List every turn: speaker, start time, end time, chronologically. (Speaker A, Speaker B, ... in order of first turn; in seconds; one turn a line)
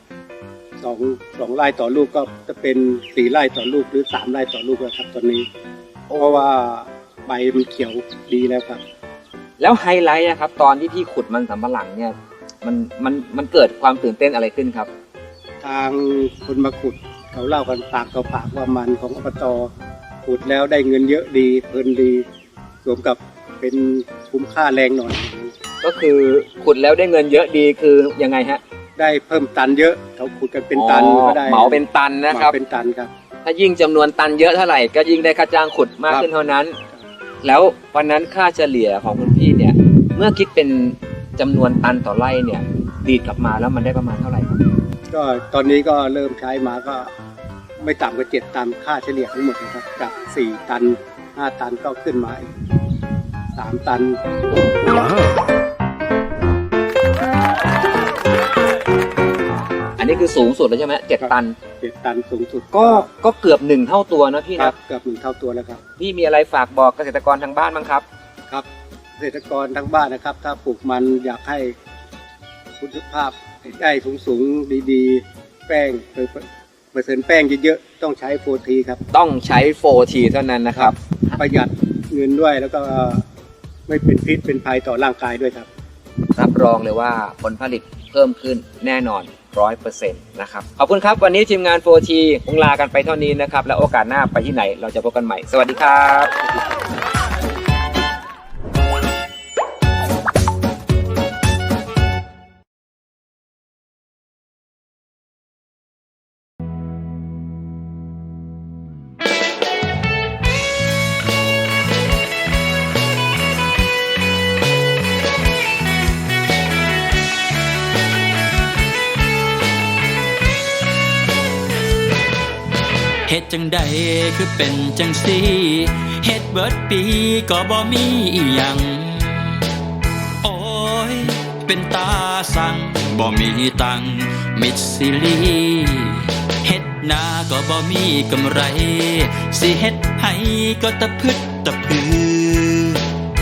Speaker A: 0.8-5.5
Speaker B: 6.1-6.5
Speaker A: 6.2-8.8
Speaker B: 9.6-14.9
Speaker A: 15.6-19.7
Speaker A: 20.2-22.3
Speaker A: 22.8-25.5
Speaker B: 25.8-28.6
Speaker A: 29.0-33.1
Speaker B: 30.7-32.6
Speaker B: 33.4-36.8
Speaker B: 37.4-44.6
Speaker A: 45.1-47.1
Speaker A: 47.8-52.5
Speaker A: 53.6-54.2
Speaker B: 60.0-61.6
Speaker A: 61.2-63.1
Speaker B: 62.7-64.8
Speaker A: 64.6-65.8
Speaker B: 66.0-68.0
Speaker A: 69.2-71.8
Speaker A: 72.8-79.0
Speaker B: 79.1-81.4
Speaker A: 80.7-83.2
Speaker A: 83.9-85.7
Speaker B: 86.4-96.4
Speaker C: 123.3-129.6
Speaker C: 130.4-143.0